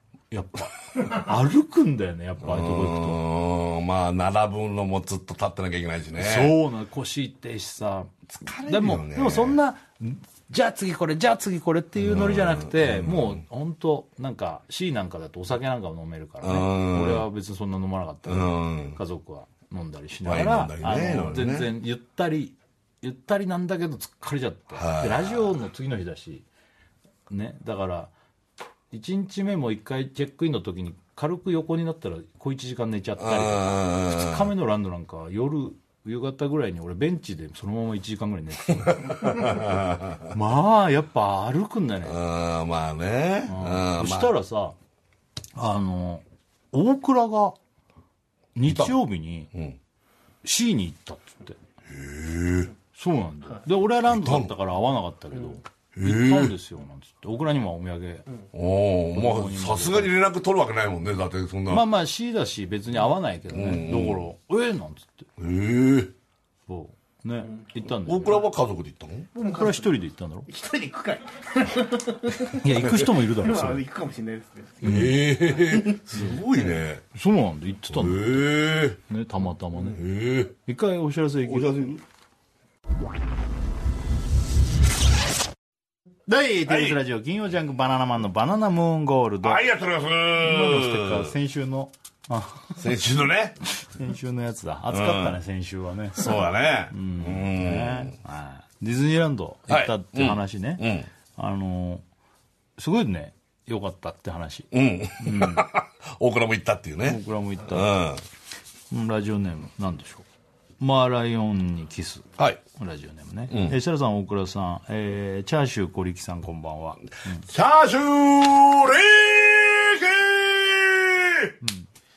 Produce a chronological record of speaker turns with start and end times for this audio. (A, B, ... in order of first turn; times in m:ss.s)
0:00.3-0:03.2 A
0:02.4-0:06.6 B
0:06.2-0:26.5 A
0:08.3-0:09.6 B
0:12.0-0:13.4 B
0:16.4-0:17.2 B
0:18.3-0:19.0 B
0:20.2-0:21.7 B
0:24.8-0:25.5 B
0:27.3-0:28.1 A
0:28.9-0:39.8 A
0:33.2-0:34.5 B
0:38.8-0:40.3 B
0:40.3-0:42.2 A
0:42.0-0:44.3 B
0:43.5-0:44.8 A
0:45.6-0:47.6 A
0:48.6-0:49.5 A
0:48.7-0:49.0 B
0:49.5-0:49.8 B
0:50.4-0:51.6 A
0:51.9-0:52.7 B
0:52.9-0:58.3 A
0:54.1-0:54.5 B
0:56.0-0:56.6 B
0:58.5-1:01.9 B
0:59.1-1:00.1 A
1:01.7-1:05.3 A
1:03.5-1:04.3 B
1:05.4-1:06.1 B
1:06.7-1:08.5 A
1:07.9-1:09.3 B
1:09.4-1:09.9 C
1:09.4-1:10.5 A
1:10.5-1:16.0 C
1:12.5-1:13.8 A
1:14.8-1:17.0 B
1:14.8-1:15.2 A
1:17.1-1:18.5 A
1:17.9-1:19.0 B
1:19.1-1:20.0 A
1:19.9-1:20.6 B
1:20.7-1:21.9 A
1:21.4-1:22.0 B
1:26.3-1:29.6 A
1:26.7-1:27.0 B
1:29.4-1:31.4 B
1:30.4-1:32.8 A
1:32.8-1:33.6 B
1:33.7-1:42.0 A
1:34.9-1:35.4 B
1:36.1-1:38.2 B
1:39.7-1:41.1 B
1:42.8-1:45.7 A
1:44.7-1:48.2 B
1:47.0-1:48.0 A
1:48.9-1:50.3 A
1:50.8-1:57.5 A
1:53.5-1:53.8 B
1:57.3-2:01.6 B